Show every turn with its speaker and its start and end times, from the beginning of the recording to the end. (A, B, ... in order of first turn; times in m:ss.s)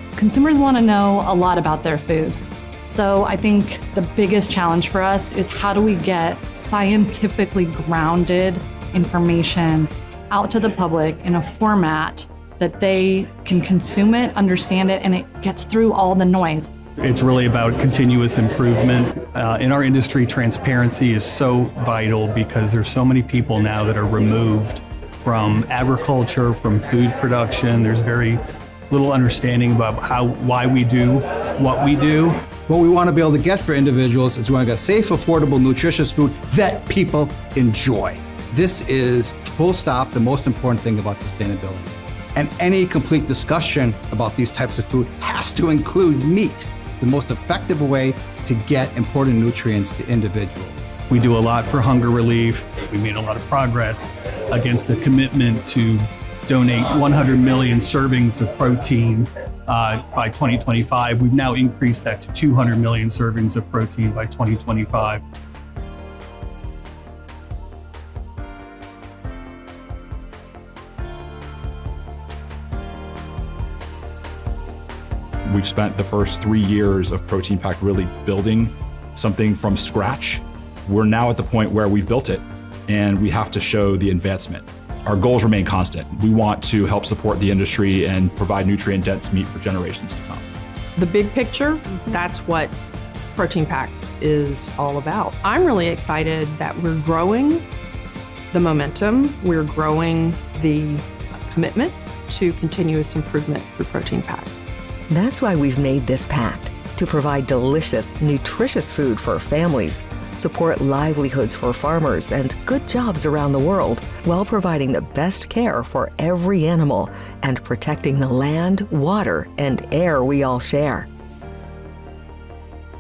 0:00.2-0:16.7 A
0:17.0-0:32.4 B
0:32.7-0:50.8 C
0:51.1-1:05.2 B
1:15.5-1:30.5 D
1:31.0-1:32.8 E
1:33.4-1:37.6 E
1:38.5-1:44.5 E
1:45.1-2:01.1 F